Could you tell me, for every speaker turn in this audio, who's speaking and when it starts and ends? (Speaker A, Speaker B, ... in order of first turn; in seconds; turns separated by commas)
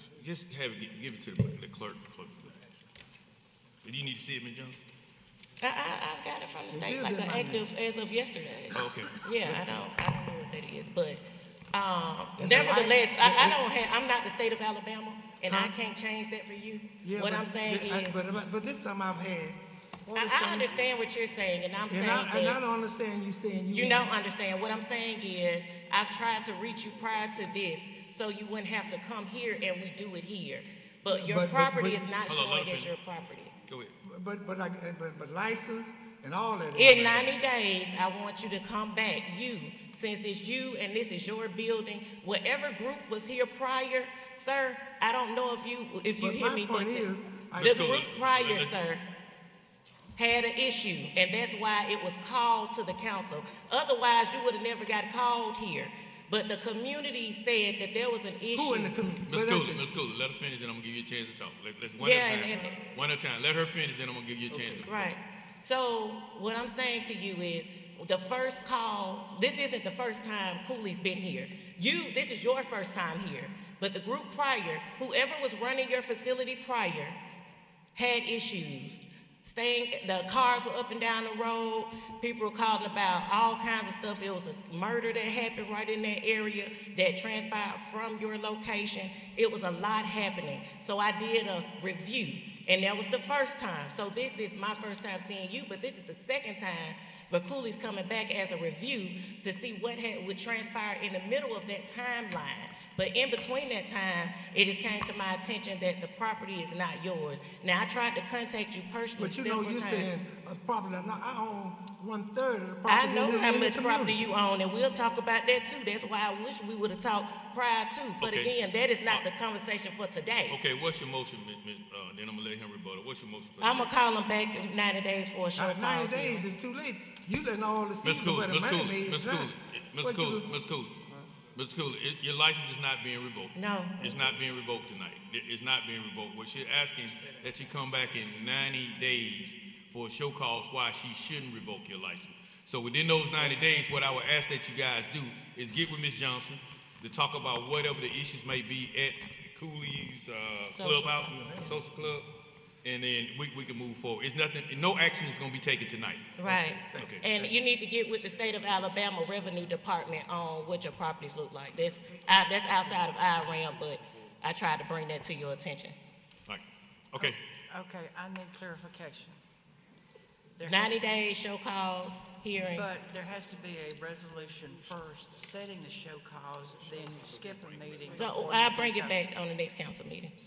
Speaker A: 0.2-2.6, Speaker A: 3.8-4.8, Speaker B: 5.6-11.2, Speaker C: 6.7-7.7, Speaker A: 8.8-9.2, Speaker C: 9.4-9.8, Speaker B: 11.7-18.2, Speaker C: 12.4-13.6, Speaker C: 17.0-20.7, Speaker B: 20.1-22.6, Speaker C: 21.9-24.1, Speaker B: 23.7-33.5, Speaker C: 31.1-32.1, Speaker A: 32.3-32.9, Speaker A: 33.7-33.9, Speaker C: 34.0-37.2, Speaker B: 36.8-47.1, Speaker C: 46.2-47.8, Speaker A: 47.6-48.8, Speaker B: 47.6-49.0, Speaker B: 50.2-58.9, Speaker C: 58.5-59.8, Speaker A: 59.3-65.0, Speaker B: 62.0-62.9, Speaker B: 64.8-77.2, Speaker B: 78.0-110.1, Speaker C: 109.2-114.3, Speaker B: 112.9-120.6, Speaker A: 118.2-118.5, Speaker A: 120.5-123.9, Speaker B: 123.6-126.5, Speaker C: 125.5-130.5, Speaker A: 128.0-131.0, Speaker A: 131.5-152.3, Speaker B: 133.6-134.0, Speaker B: 150.8-151.3, Speaker C: 151.3-151.9, Speaker A: 152.8-156.3, Speaker B: 156.4-165.9, Speaker C: 156.4-157.5, Speaker A: 157.0-157.3, Speaker A: 166.5-167.4, Speaker D: 167.2-169.4, Speaker D: 170.6-171.0, Speaker B: 170.6-172.9, Speaker D: 172.7-179.2, Speaker B: 178.2-180.3